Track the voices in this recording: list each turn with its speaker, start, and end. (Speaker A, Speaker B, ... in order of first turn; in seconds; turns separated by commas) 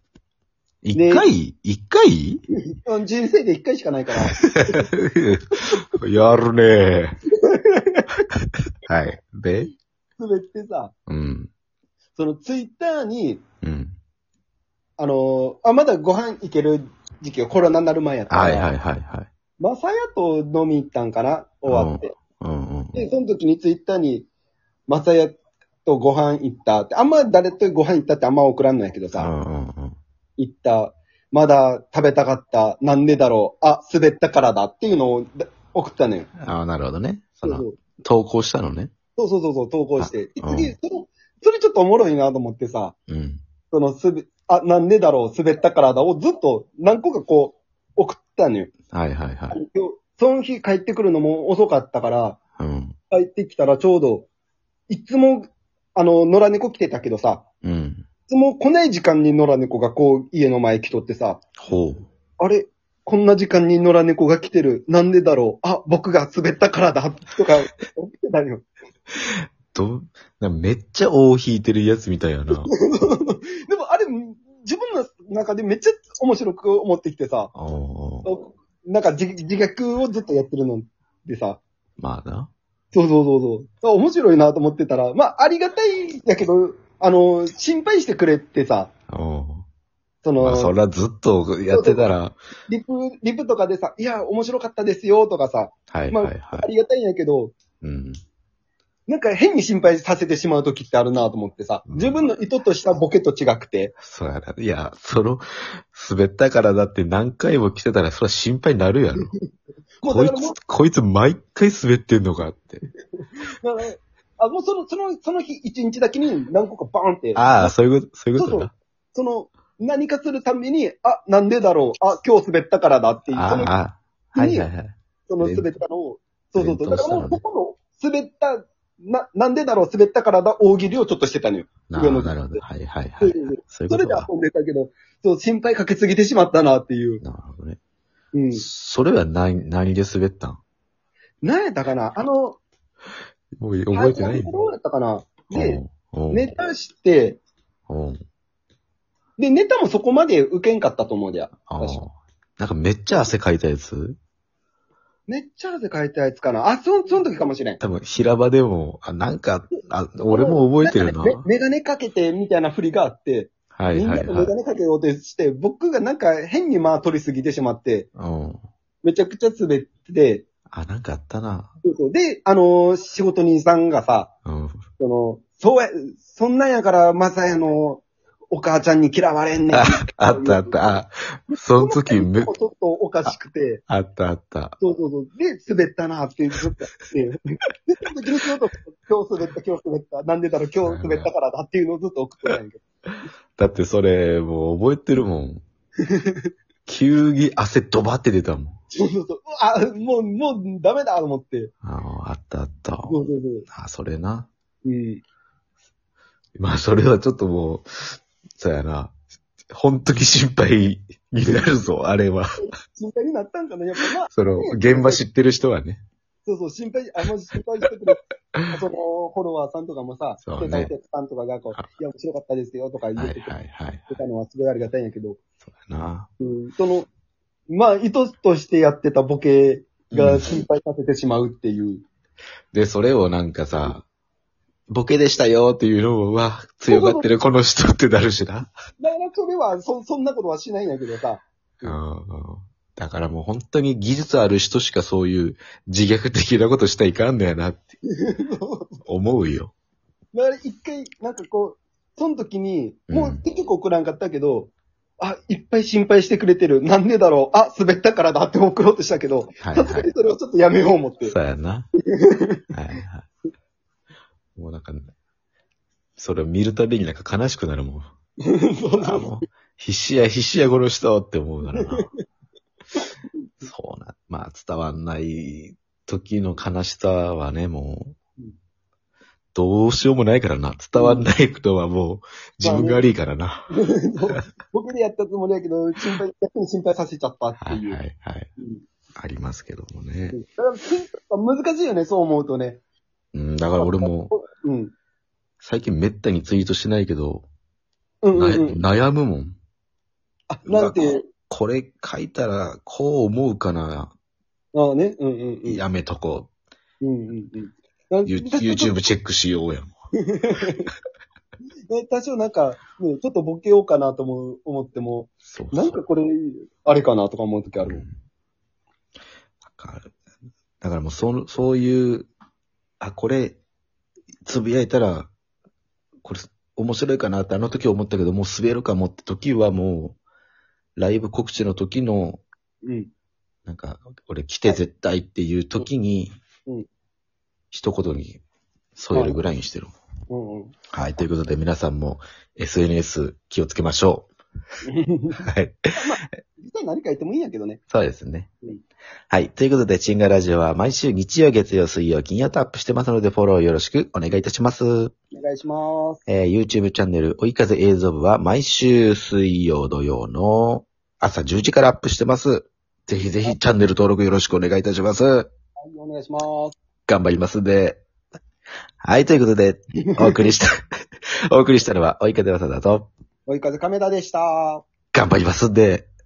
Speaker A: 0.8-2.4, Speaker B: 0.9-1.2, Speaker B: 2.8-4.8, Speaker A: 4.3-7.2, Speaker B: 7.4-8.1, Speaker A: 8.8-9.7, Speaker B: 10.2-10.9, Speaker A: 11.1-11.5, Speaker B: 12.2-13.4, Speaker A: 13.6-14.0, Speaker B: 15.0-18.7, Speaker A: 18.3-19.3, Speaker B: 19.6-22.1, Speaker A: 21.7-23.0, Speaker B: 22.9-24.3, Speaker B: 24.9-29.3, Speaker A: 29.1-30.0, Speaker B: 30.4-36.3, Speaker A: 36.4-38.9, Speaker B: 37.4-37.7, Speaker B: 39.2-42.9, Speaker A: 40.0-40.7, Speaker A: 43.1-43.4, Speaker B: 43.7-48.7, Speaker A: 48.9-49.5, Speaker B: 49.5-52.4, Speaker A: 52.6-53.0, Speaker B: 53.1-54.3, Speaker B: 54.9-57.4, Speaker A: 57.6-58.0, Speaker B: 58.3-61.4, Speaker A: 61.6-62.1, Speaker B: 62.4-68.7, Speaker A: 69.2-72.7, Speaker B: 72.6-77.5, Speaker A: 77.5-78.3, Speaker B: 78.2-81.6, Speaker A: 82.0-82.5, Speaker B: 82.9-88.9, Speaker A: 89.1-89.6, Speaker B: 90.2-90.7, Speaker A: 90.4-92.4, Speaker B: 91.7-92.1, Speaker B: 92.7-97.5, Speaker A: 95.9-96.7, Speaker A: 97.8-98.2, Speaker B: 99.1-103.9, Speaker A: 101.9-102.3, Speaker A: 104.0-109.3, Speaker B: 110.0-110.6, Speaker A: 110.0-112.8, Speaker B: 113.6-117.7, Speaker A: 117.3-118.7, Speaker B: 118.3-123.7, Speaker A: 123.3-125.7, Speaker B: 124.3-124.7, Speaker B: 125.3-132.6, Speaker A: 126.5-127.4, Speaker A: 131.9-134.3, Speaker B: 133.2-137.2, Speaker A: 137.2-137.8, Speaker B: 138.3-138.6, Speaker A: 138.5-140.6, Speaker B: 141.4-142.6, Speaker A: 143.6-144.5, Speaker B: 143.9-147.4, Speaker A: 145.5-146.4, Speaker A: 147.9-148.2, Speaker B: 149.4-152.0, Speaker A: 151.7-154.2, Speaker B: 155.3-157.8, Speaker A: 157.8-161.4, Speaker B: 160.3-168.1, Speaker A: 163.7-164.5, Speaker A: 168.2-168.6, Speaker B: 169.0-170.4, Speaker A: 170.7-171.7, Speaker B: 171.8-174.3, Speaker A: 174.4-174.8, Speaker B: 175.0-181.0, Speaker A: 179.7-182.5, Speaker B: 181.5-183.8, Speaker A: 183.9-184.8, Speaker B: 184.8-187.4, Speaker B: 187.9-192.8, Speaker A: 190.8-191.3, Speaker A: 193.6-195.6, Speaker B: 196.1-196.5, Speaker A: 196.8-198.8, Speaker B: 198.9-201.7, Speaker A: 201.8-203.1, Speaker B: 203.1-203.7, Speaker A: 203.7-204.5, Speaker B: 204.8-205.2, Speaker A: 206.6-209.1, Speaker A: 209.7-212.5, Speaker B: 212.6-215.2, Speaker A: 214.3-216.0, Speaker B: 216.4-218.2, Speaker B: 218.7-223.6, Speaker A: 220.4-220.9, Speaker A: 223.2-224.2, Speaker B: 224.1-225.4, Speaker A: 225.8-226.3, Speaker B: 226.4-227.1, Speaker B: 227.7-232.0, Speaker A: 230.1-230.6, Speaker A: 232.7-234.0, Speaker A: 234.9-238.7, Speaker B: 236.9-237.3, Speaker B: 239.0-242.0, Speaker A: 241.8-247.9, Speaker B: 248.1-249.0, Speaker A: 249.1-249.7, Speaker B: 250.3-261.3, Speaker A: 253.1-253.4, Speaker A: 259.6-260.1, Speaker A: 261.2-261.9, Speaker B: 261.9-262.6, Speaker A: 262.7-263.3, Speaker A: 264.6-265.1, Speaker A: 266.2-268.0, Speaker B: 268.5-269.2, Speaker A: 269.0-272.1, Speaker B: 271.7-272.0, Speaker A: 273.6-278.1, Speaker A: 279.5-283.7, Speaker B: 280.9-281.2, Speaker B: 282.6-283.0, Speaker B: 283.7-288.0, Speaker A: 287.6-288.5, Speaker A: 289.2-290.4, Speaker B: 290.3-292.8, Speaker A: 293.3-294.3, Speaker B: 293.8-294.9, Speaker A: 295.6-297.4, Speaker B: 298.2-298.8, Speaker A: 298.3-299.6, Speaker B: 300.5-301.2, Speaker A: 300.6-304.1, Speaker B: 304.7-305.8, Speaker A: 305.6-306.5, Speaker B: 307.0-308.9, Speaker A: 308.2-309.9, Speaker B: 310.3-310.9, Speaker B: 311.9-318.0, Speaker A: 315.4-316.0, Speaker A: 317.8-318.1, Speaker A: 319.7-320.1, Speaker A: 320.8-322.3, Speaker A: 323.0-323.6, Speaker A: 324.4-325.3, Speaker A: 326.2-330.2, Speaker A: 330.9-332.4, Speaker B: 332.8-333.1, Speaker A: 333.6-336.4, Speaker A: 337.7-338.4, Speaker A: 338.9-339.9, Speaker B: 339.1-339.4, Speaker B: 340.3-340.7, Speaker A: 340.9-344.3, Speaker B: 344.9-345.4, Speaker A: 345.4-345.9, Speaker B: 345.9-347.8, Speaker A: 347.9-348.5, Speaker A: 349.3-355.1, Speaker B: 355.3-356.2, Speaker A: 356.3-365.5, Speaker B: 365.8-366.8, Speaker A: 367.1-368.0, Speaker A: 369.0-370.7, Speaker A: 371.5-373.1, Speaker B: 373.5-374.8, Speaker A: 375.1-376.1